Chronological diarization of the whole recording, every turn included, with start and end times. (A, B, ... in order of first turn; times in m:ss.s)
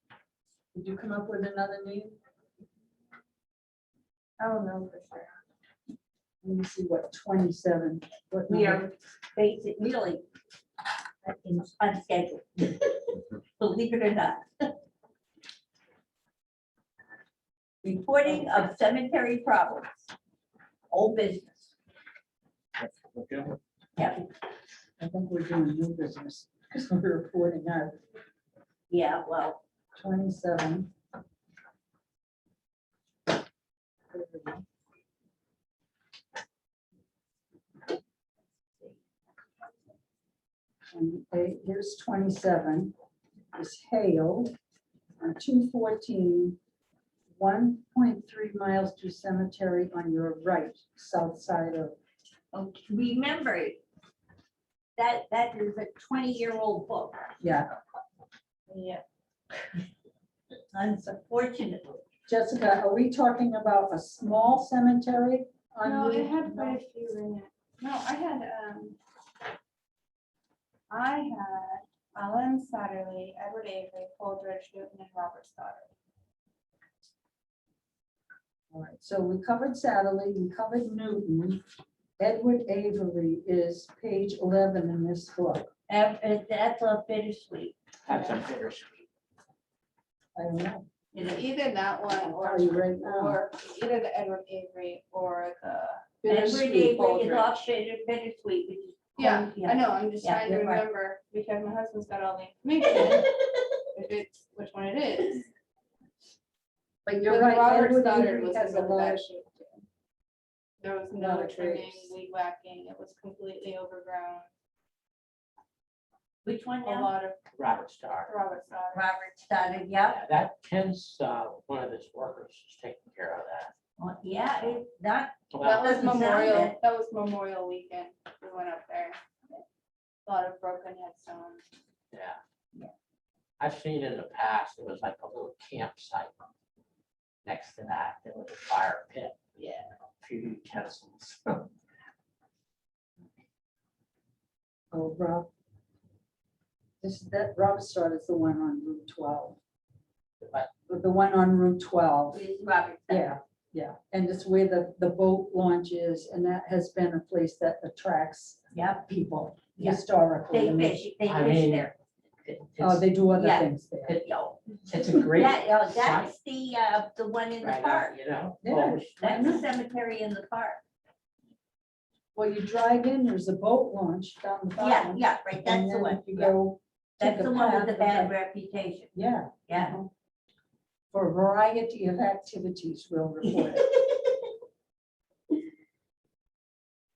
0:00.7-0:02.2 A
0:04.4-0:05.2 B
0:06.4-0:08.8 A
0:08.5-0:10.2 B
0:11.2-0:14.7 B
0:17.8-0:20.1 B
0:20.9-0:21.7 B
0:22.8-0:23.6 C
0:25.0-0:28.0 A
0:28.9-0:29.6 B
0:30.0-0:30.9 A
0:34.1-0:34.6 A
0:40.9-0:42.9 A
0:43.5-0:44.5 A
0:45.2-0:46.6 A
0:47.4-0:52.0 A
0:52.5-0:53.8 B
0:55.0-0:57.3 B
0:57.4-0:57.7 A
0:58.7-0:59.0 D
1:00.7-1:02.0 B
1:02.3-1:06.8 A
1:05.8-1:09.0 D
1:10.9-1:15.9 D
1:18.7-1:21.6 A
1:22.2-1:25.7 A
1:25.9-1:27.8 B
1:28.0-1:29.0 C
1:30.4-1:30.9 A
1:31.1-1:31.5 B
1:31.3-1:36.1 D
1:32.1-1:33.4 A
1:36.2-1:37.1 A
1:36.3-1:40.8 B
1:37.2-1:37.5 D
1:39.2-1:43.3 D
1:43.9-1:45.5 D
1:47.0-1:49.2 A
1:47.3-1:49.8 D
1:50.8-1:54.5 D
1:51.1-1:52.1 A
1:56.4-1:57.1 B
1:56.8-1:57.4 D
1:57.5-1:58.3 C
1:58.3-1:59.2 D
1:58.9-2:00.2 B
2:00.1-2:03.7 C
2:04.0-2:06.8 B
2:05.5-2:06.6 C
2:05.6-2:09.2 D
2:10.2-2:11.6 D
2:12.1-2:12.4 C
2:13.6-2:16.3 C
2:17.4-2:19.7 C
2:19.6-2:19.9 D
2:20.2-2:21.7 C
2:24.9-2:25.5 A
2:27.0-2:29.6 A
2:30.4-2:30.7 C
2:30.9-2:32.4 A
2:32.3-2:33.3 B
2:33.1-2:41.0 A
2:38.7-2:39.0 B
2:39.8-2:41.9 B
2:41.2-2:41.9 C
2:42.4-2:43.1 C
2:42.8-2:44.1 A
2:43.3-2:48.1 B
2:44.9-2:46.3 C
2:47.6-2:49.4 C
2:48.6-2:49.6 A
2:49.2-2:50.8 B
2:52.3-2:58.3 A
2:54.8-2:56.6 B
2:57.2-2:59.1 B
2:59.1-3:00.1 A
2:59.7-3:00.0 B
3:01.1-3:03.9 A
3:03.4-3:03.8 B